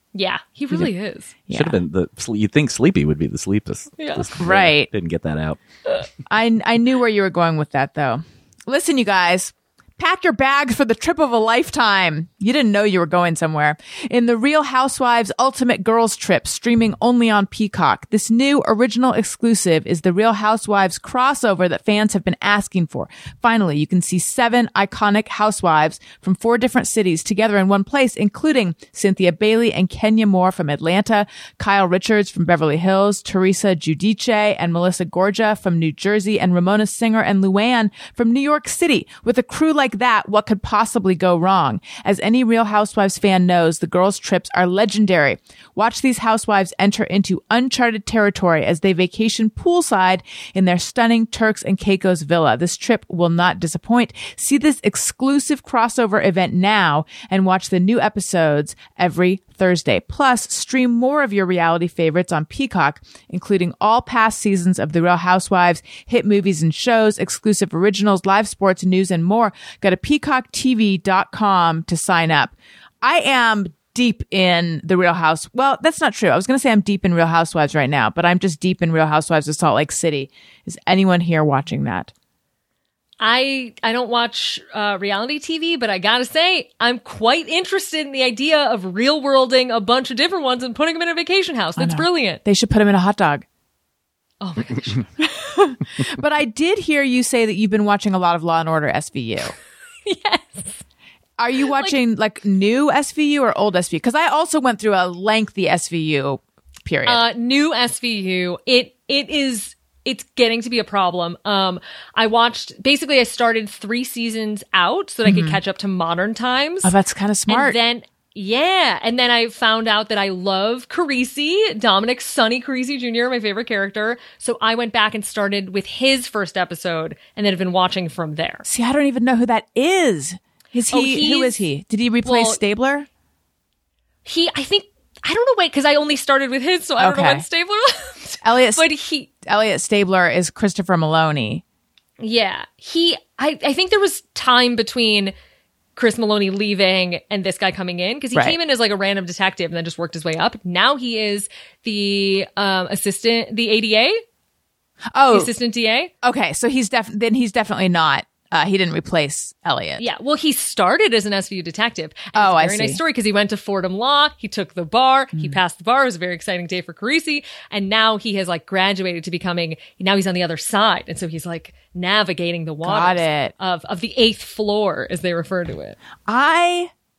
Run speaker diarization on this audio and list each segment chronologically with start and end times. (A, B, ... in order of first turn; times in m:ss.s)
0:00.2-0:01.4 A
0:01.5-0:01.8 B
0:01.5-0:05.6 C
0:04.0-0:04.3 A
0:04.4-0:04.9 B
0:06.3-1:22.1 B
1:23.2-1:32.4 A
1:31.8-1:33.4 B
1:34.4-1:35.1 A
1:35.2-1:39.5 B
1:40.1-1:40.8 A
1:41.4-1:47.2 B
1:41.7-1:42.0 A
1:47.1-1:56.9 A
1:55.2-1:55.6 B
1:56.8-1:57.8 B
1:57.5-2:08.6 A
2:08.6-2:13.1 B
2:10.9-2:11.6 A
2:12.2-2:12.6 A
2:14.2-2:19.3 A
2:17.0-2:17.4 B
2:18.4-2:18.8 B
2:19.4-2:21.6 B
2:22.2-2:25.3 A
2:26.0-2:34.2 A
2:35.1-2:35.5 B
2:35.3-2:36.1 A
2:36.2-2:40.0 B
2:40.0-2:56.0 A
2:42.3-2:43.0 B
2:45.3-2:45.6 B
2:52.8-2:53.5 B
2:56.2-2:56.9 B